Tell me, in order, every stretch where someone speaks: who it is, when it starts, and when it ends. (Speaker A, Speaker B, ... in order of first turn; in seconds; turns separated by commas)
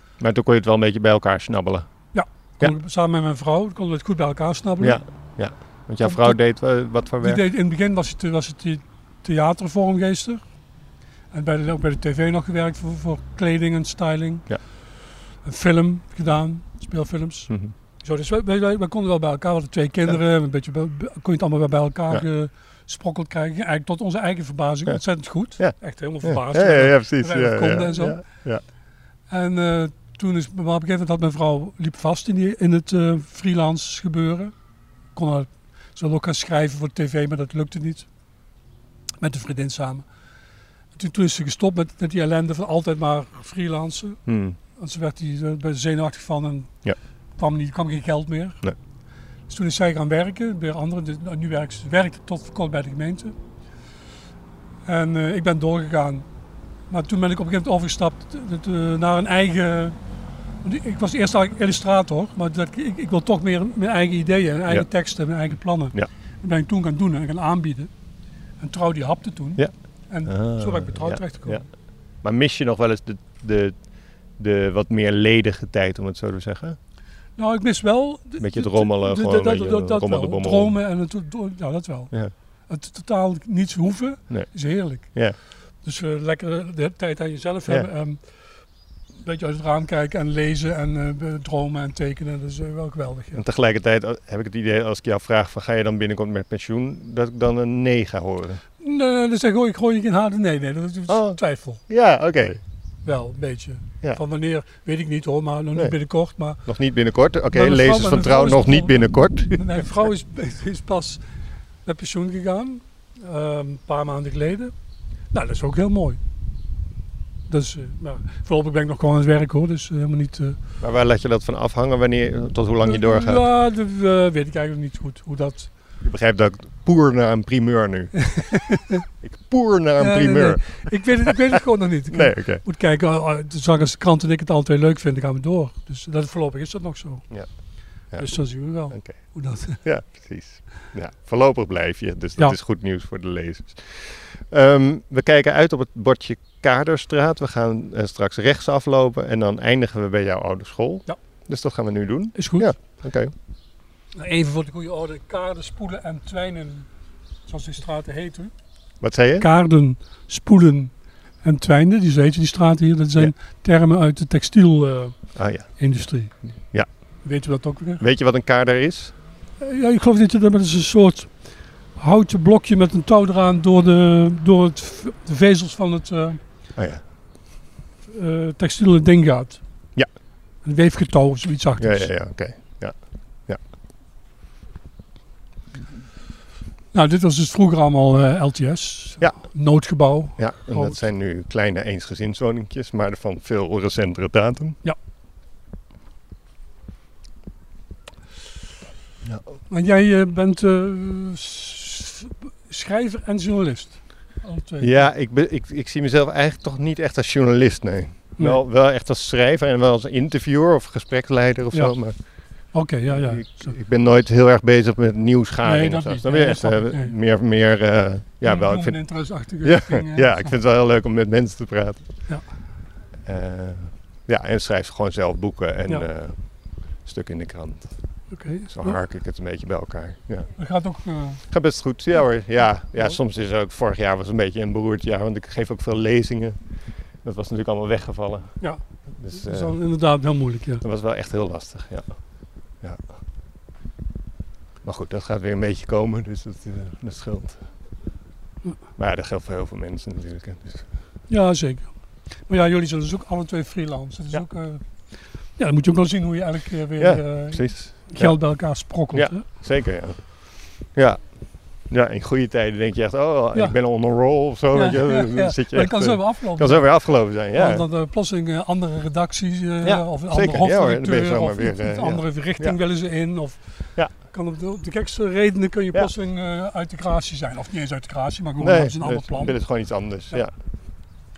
Speaker A: 0.2-1.9, Speaker B: 2.1-5.0, Speaker A: 4.8-7.4, Speaker B: 6.0-6.4, Speaker B: 7.2-10.4, Speaker B: 11.3-14.5, Speaker B: 15.4-17.5, Speaker B: 18.0-28.2, Speaker A: 25.6-28.6, Speaker B: 29.3-34.5, Speaker B: 35.1-38.1, Speaker B: 39.2-40.0, Speaker B: 41.0-44.2, Speaker A: 44.3-44.6, Speaker B: 44.8-46.7, Speaker B: 47.4-48.6, Speaker B: 49.5-53.4, Speaker B: 54.9-56.3, Speaker B: 56.9-60.0, Speaker B: 60.6-67.9, Speaker B: 68.6-71.7, Speaker A: 70.3-71.6, Speaker A: 72.2-73.8, Speaker A: 74.4-76.8, Speaker B: 77.4-82.2, Speaker A: 78.4-80.7, Speaker B: 82.7-85.2, Speaker A: 84.3-85.4, Speaker B: 85.8-88.2, Speaker B: 89.2-93.4, Speaker A: 93.3-98.6, Speaker B: 98.8-101.8, Speaker A: 101.1-102.6, Speaker B: 103.0-106.6, Speaker A: 106.7-109.9, Speaker B: 107.5-111.2, Speaker B: 111.8-114.7, Speaker B: 115.3-116.2, Speaker B: 117.5-120.6, Speaker A: 120.8-123.5, Speaker B: 122.8-125.7, Speaker A: 126.0-128.2, Speaker B: 128.2-129.0, Speaker A: 129.2-131.3, Speaker B: 130.0-137.2, Speaker A: 132.1-132.6, Speaker B: 138.2-139.8, Speaker A: 138.9-139.2, Speaker A: 139.7-153.3, Speaker B: 152.4-152.7, Speaker B: 154.2-156.9, Speaker B: 157.5-158.5, Speaker A: 159.0-159.5, Speaker B: 159.4-166.4, Speaker A: 165.4-165.7, Speaker B: 167.2-168.0, Speaker A: 168.0-169.2, Speaker B: 169.6-171.3, Speaker B: 172.0-176.4, Speaker A: 176.8-177.0, Speaker B: 178.1-179.6, Speaker B: 180.6-182.1, Speaker A: 181.8-183.0, Speaker B: 186.9-191.0, Speaker A: 190.4-194.8, Speaker B: 199.7-205.1, Speaker A: 204.8-212.2, Speaker B: 212.7-213.7, Speaker A: 213.1-219.0, Speaker B: 215.6-217.1, Speaker B: 218.4-220.6, Speaker A: 219.6-222.1, Speaker A: 223.3-226.4, Speaker A: 227.0-227.9, Speaker B: 228.3-229.0, Speaker A: 228.7-230.5, Speaker B: 230.6-231.4, Speaker A: 231.5-236.6, Speaker A: 237.2-238.6, Speaker B: 238.6-240.8, Speaker A: 239.2-239.8, Speaker A: 240.8-242.2, Speaker A: 244.8-247.6, Speaker A: 249.0-250.9, Speaker B: 251.3-251.9, Speaker B: 252.5-254.8, Speaker B: 255.6-259.4, Speaker A: 257.0-258.4, Speaker A: 259.1-260.2, Speaker A: 260.9-261.2, Speaker A: 261.9-267.9, Speaker B: 264.7-266.9, Speaker B: 267.5-279.6, Speaker A: 269.8-272.8, Speaker A: 278.6-280.5